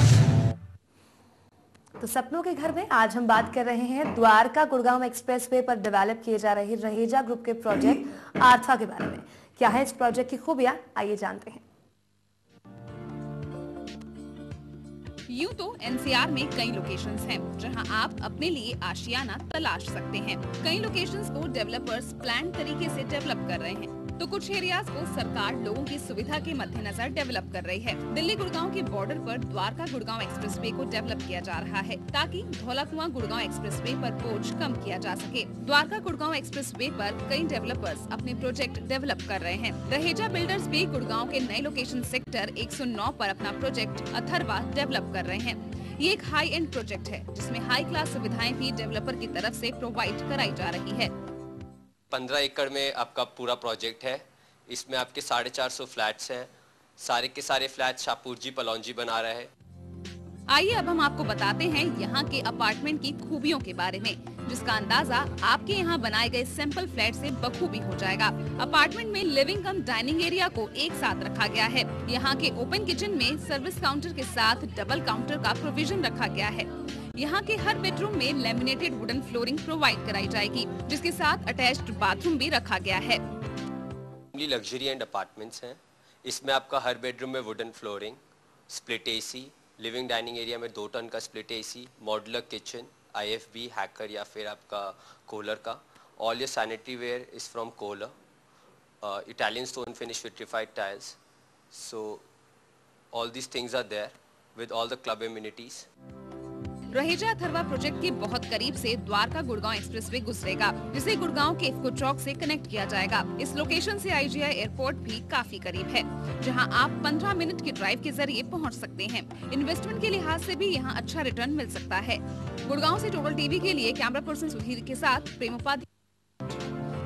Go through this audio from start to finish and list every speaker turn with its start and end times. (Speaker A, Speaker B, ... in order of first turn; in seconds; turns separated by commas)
Speaker A: 2.0-11.6, Speaker B: 15.3-51.1, Speaker C: 52.1-59.5, Speaker B: 60.5-83.2, Speaker C: 84.3-98.1, Speaker C: 99.0-101.2, Speaker C: 101.7-102.2, Speaker C: 103.1-105.9, Speaker B: 106.9-125.8